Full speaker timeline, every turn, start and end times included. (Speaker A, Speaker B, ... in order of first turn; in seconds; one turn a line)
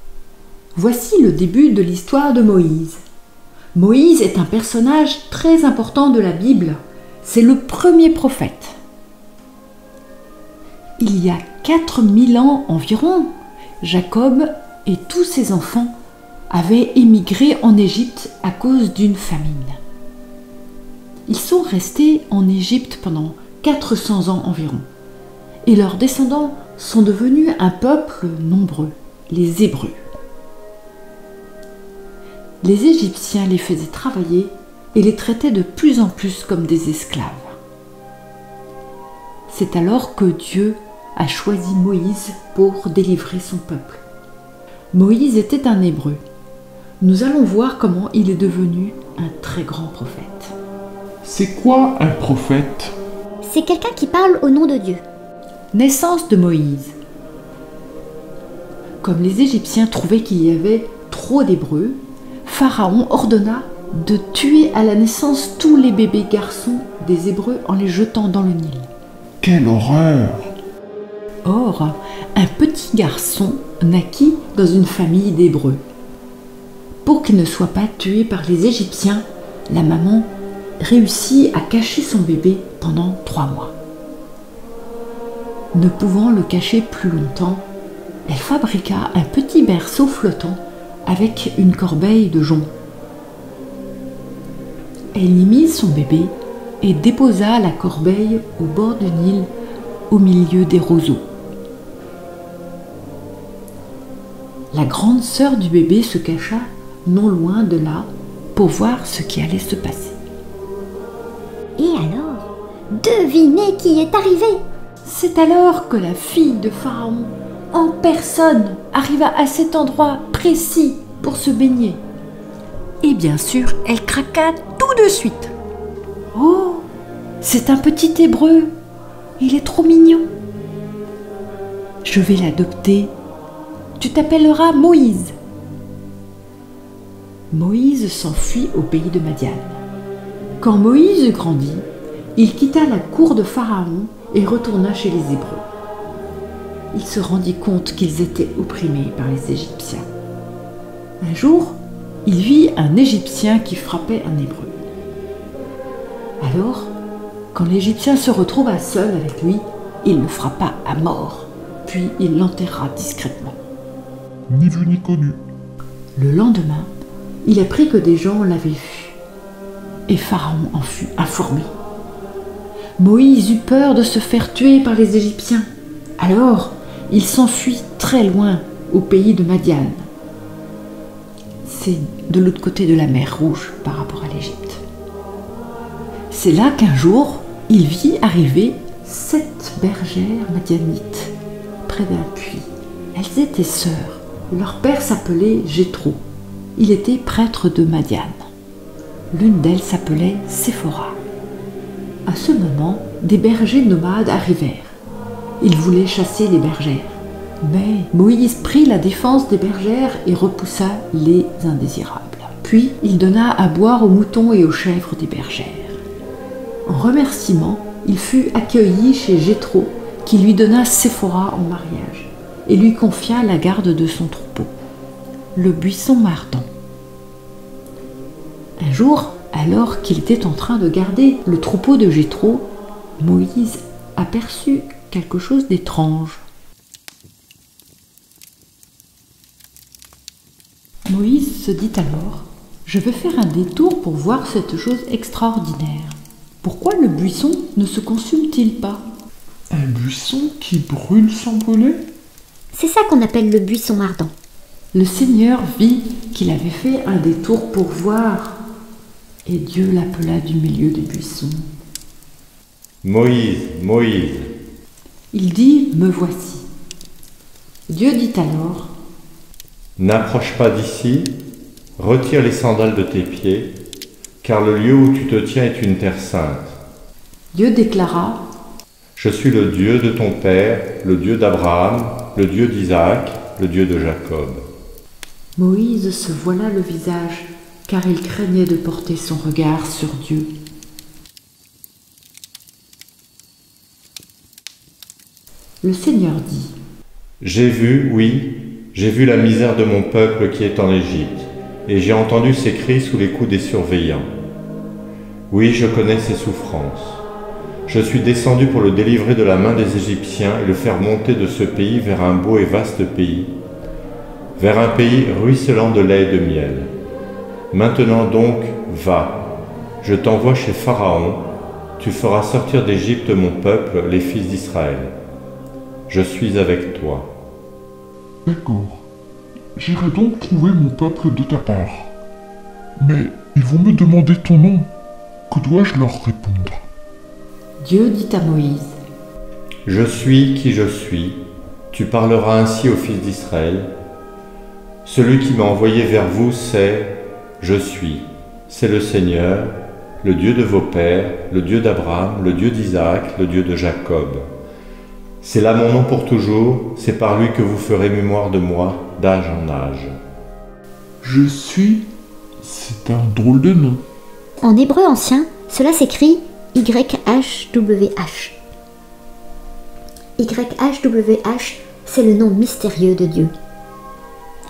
Speaker A: 0.8-3.0
Speaker A: 3.8-8.8
Speaker A: 11.0-15.9
Speaker A: 16.5-19.8
Speaker A: 21.3-24.9
Speaker A: 25.7-30.1
Speaker A: 32.6-37.6
Speaker A: 39.5-44.0
Speaker A: 44.9-46.2
Speaker A: 47.0-50.6
Speaker B: 51.2-53.0
Speaker C: 53.4-55.0
Speaker A: 55.7-57.0
Speaker A: 59.0-68.9
Speaker B: 69.4-70.5
Speaker A: 71.5-75.8
Speaker A: 77.0-83.8
Speaker A: 85.7-87.7
Speaker A: 88.3-92.7
Speaker A: 95.2-99.5
Speaker A: 100.1-101.3
Speaker A: 104.7-110.2
Speaker C: 111.8-114.6
Speaker A: 115.0-122.0
Speaker A: 123.0-125.5
Speaker A: 126.3-126.9
Speaker A: 127.4-128.7
Speaker A: 129.4-130.3
Speaker A: 132.0-133.1
Speaker A: 134.0-135.3
Speaker A: 137.5-139.8
Speaker A: 140.6-145.7
Speaker A: 146.9-150.1
Speaker A: 151.2-154.8
Speaker A: 156.4-156.9
Speaker A: 157.5-163.6
Speaker B: 164.5-165.4
Speaker A: 166.2-166.9
Speaker A: 167.4-169.2
Speaker A: 170.1-171.7
Speaker A: 173.0-180.1
Speaker A: 181.7-184.8
Speaker A: 186.3-191.3
Speaker A: 191.9-196.2
Speaker A: 196.8-198.5
Speaker A: 199.3-201.2
Speaker A: 202.3-205.0
Speaker A: 205.6-216.0
Speaker A: 216.9-224.7
Speaker A: 225.6-226.7
Speaker A: 228.8-236.4
Speaker A: 241.1-249.0
Speaker B: 249.7-252.1
Speaker C: 252.7-254.3
Speaker A: 254.9-258.6
Speaker A: 259.5-261.6
Speaker D: 263.0-264.5
Speaker A: 265.3-266.7
Speaker A: 267.9-268.9
Speaker D: 270.0-271.4
Speaker D: 272.0-273.8
Speaker D: 274.4-276.8
Speaker A: 277.5-278.4
Speaker D: 279.2-284.6
Speaker A: 285.6-290.5
Speaker A: 295.8-296.8
Speaker D: 297.4-304.3
Speaker D: 305.5-307.2
Speaker D: 307.9-313.6
Speaker D: 314.6-316.9
Speaker D: 317.7-319.5
Speaker D: 320.0-325.2
Speaker D: 326.1-327.3
Speaker B: 328.5-329.1
Speaker B: 329.8-332.1
Speaker B: 333.0-334.9
Speaker B: 335.5-336.8
Speaker A: 337.8-339.0
Speaker D: 339.9-343.9
Speaker D: 345.1-354.4
Speaker D: 355.4-360.1
Speaker B: 361.2-364.0
Speaker C: 364.6-368.6
Speaker C: 370.4-373.5